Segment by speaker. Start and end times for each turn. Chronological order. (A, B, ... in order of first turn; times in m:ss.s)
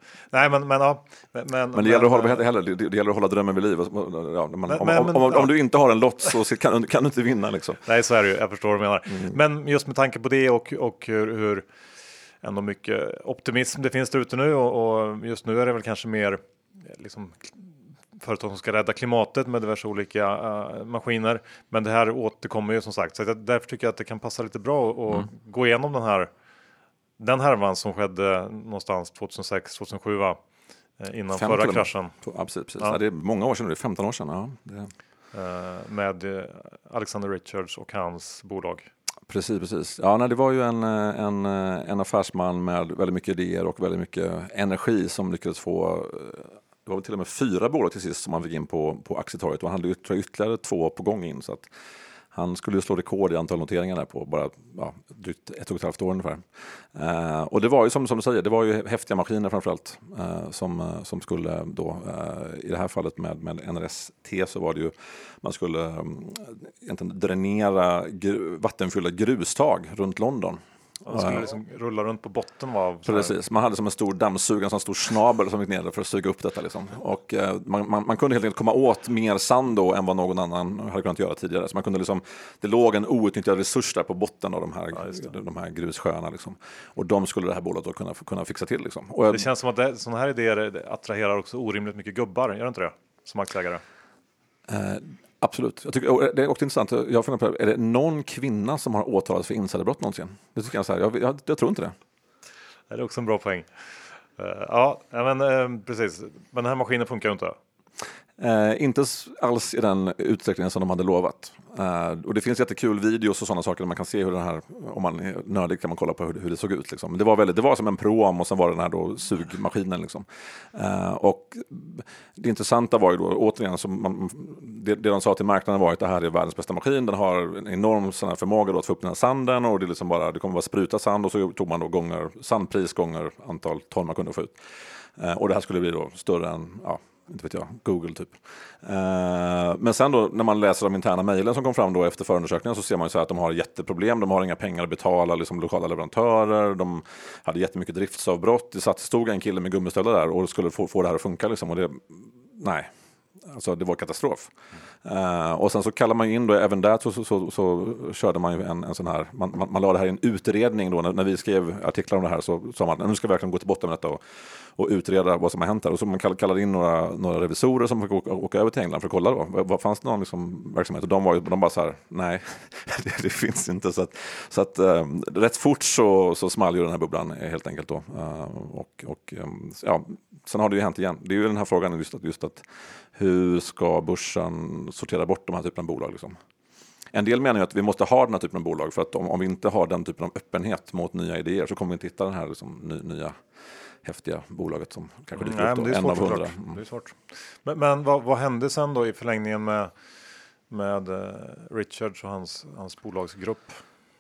0:00.3-0:02.4 A
0:01.7-0:07.8 B
0:04.7-0:05.6 A
0:07.8-0:11.7 A
0:12.4-0:26.3 A
0:27.2-0:30.4 A
0:31.0-0:32.1 A
0:31.3-0:34.9 B
0:35.3-0:38.9 A
0:39.3-0:51.7 B
0:52.3-1:11.4 B
1:11.0-1:13.3 A
1:13.0-1:29.5 B
1:29.3-1:33.8 A
1:34.7-1:42.0 B
1:42.9-1:43.7 A
1:44.4-1:47.6 A
1:48.4-2:14.6 B
2:15.2-2:32.9 B
2:33.4-2:34.5 B
2:35.0-3:02.6 B
3:03.1-3:06.4 B
3:07.1-3:13.4 B
3:14.0-3:16.8 B
3:15.4-3:19.9 A
3:20.7-3:23.8 A